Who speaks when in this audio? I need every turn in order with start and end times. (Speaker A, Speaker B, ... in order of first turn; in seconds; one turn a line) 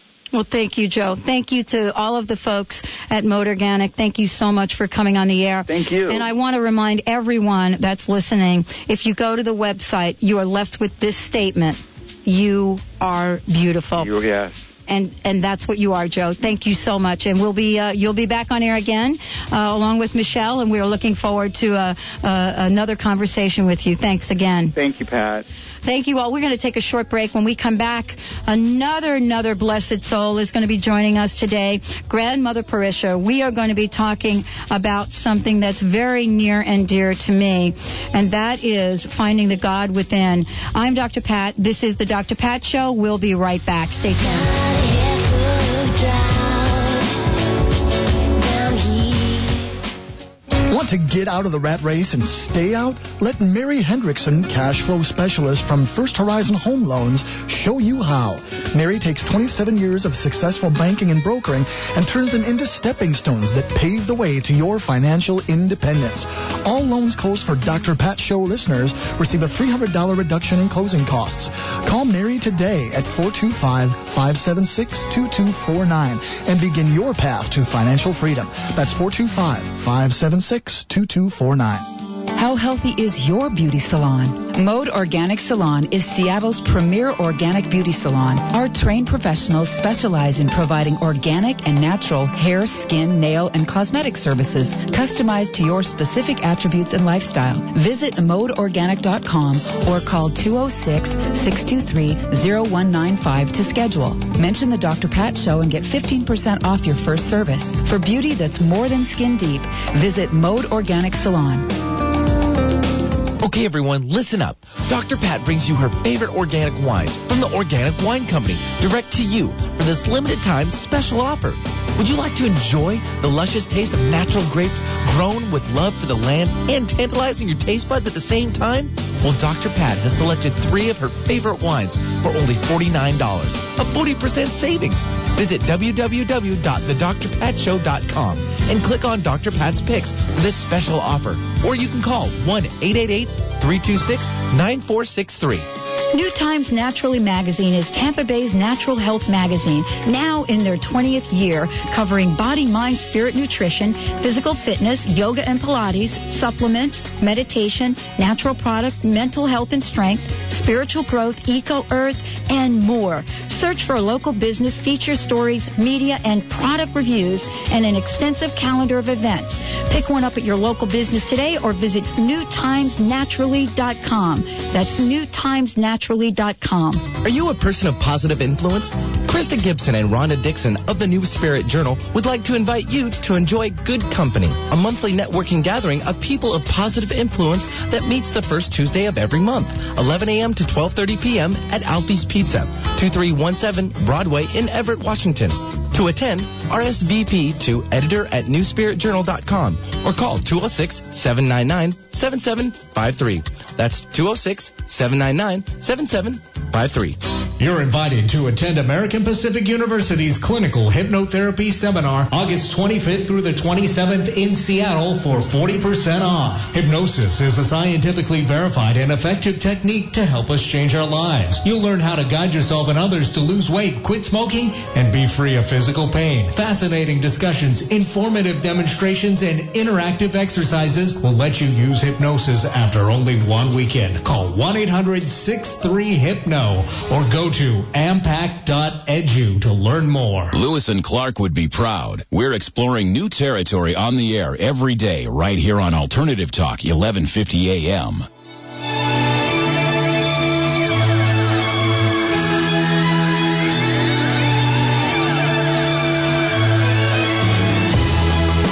Speaker A: 0.3-14.1
Speaker B: 5.7-6.3
Speaker B: 14.0-14.6
Speaker A: 14.9-24.7
Speaker B: 24.7-25.4
Speaker A: 25.9-44.6
Speaker C: 50.7-81.8
Speaker D: 82.3-111.7
Speaker E: 113.4-145.7
Speaker A: 146.1-177.1
Speaker E: 177.2-207.2
Speaker F: 207.6-240.6
Speaker G: 240.5-248.3